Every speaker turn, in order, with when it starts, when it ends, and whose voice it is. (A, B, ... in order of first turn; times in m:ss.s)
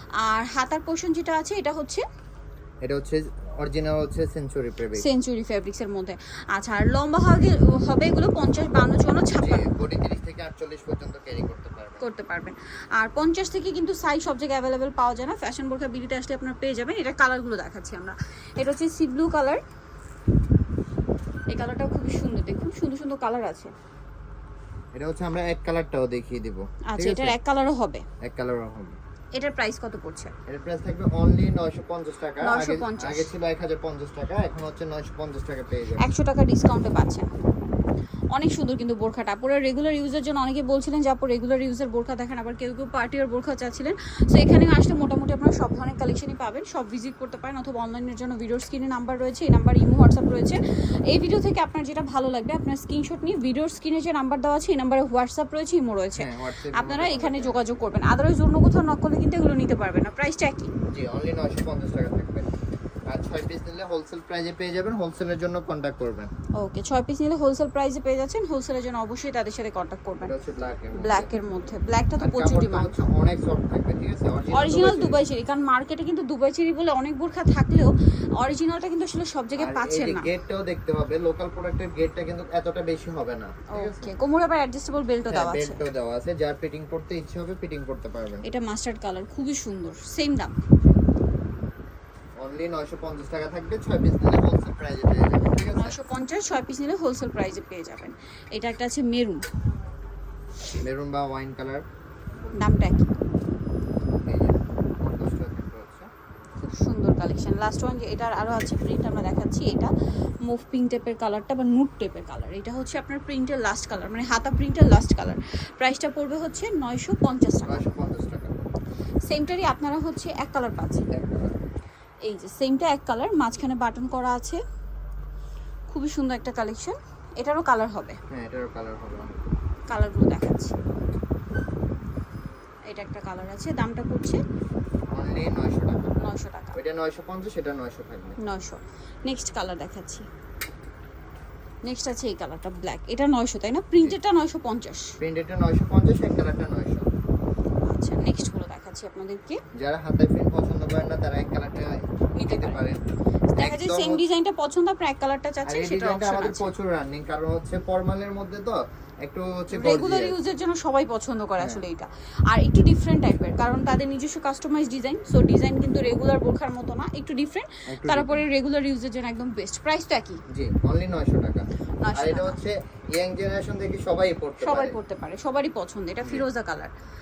0:00.2-0:02.0 A
0:02.8-0:05.0 B
0:04.9-0:09.6 A
0:09.4-0:12.0 B
0:12.0-0:19.6 A
0:21.5-0:23.7 A
0:24.9-0:27.4 B
0:26.9-0:28.0 A
0:28.2-0:29.0 B
0:29.3-0:30.3 A
0:30.5-0:36.1 B
0:32.4-0:33.3 A
0:36.0-0:37.3 A
0:38.3-1:00.7 A
0:56.1-0:57.6 B
1:00.9-1:02.5 B
1:03.1-1:06.3 B
1:06.6-1:10.3 A
1:10.2-1:11.3 B
1:11.0-1:12.9 A
1:12.2-1:15.2 B
1:14.5-1:20.3 A
1:19.6-1:24.1 B
1:23.7-1:25.8 A
1:25.3-1:28.4 B
1:28.4-1:30.5 A
1:32.4-1:36.0 B
1:35.6-1:39.4 A
1:40.8-1:41.8 B
1:42.6-1:43.1 A
1:44.2-1:46.1 B
1:46.6-1:49.9 A
1:50.4-1:57.8 A
1:57.6-1:58.6 B
1:59.2-2:01.1 A
2:01.1-2:01.6 B
2:02.2-2:04.6 A
2:05.9-2:08.2 A
2:08.3-2:09.4 B
2:09.9-2:10.8 A
2:12.9-2:14.4 A
2:15.1-2:16.2 B
2:16.2-2:16.8 A
2:16.7-2:18.4 B
2:18.4-2:20.3 A
2:21.8-2:25.1 A
2:25.2-2:27.0 B
2:27.9-2:29.6 A
2:29.8-2:33.0 B
2:32.4-2:32.8 A
2:33.5-2:36.7 A
2:33.6-2:34.2 B
2:35.6-2:40.4 B
2:39.7-2:50.4 A
2:41.6-2:41.9 B
2:47.9-2:48.5 B
2:50.5-2:55.0 B
2:52.0-2:52.6 A
2:54.6-2:56.9 A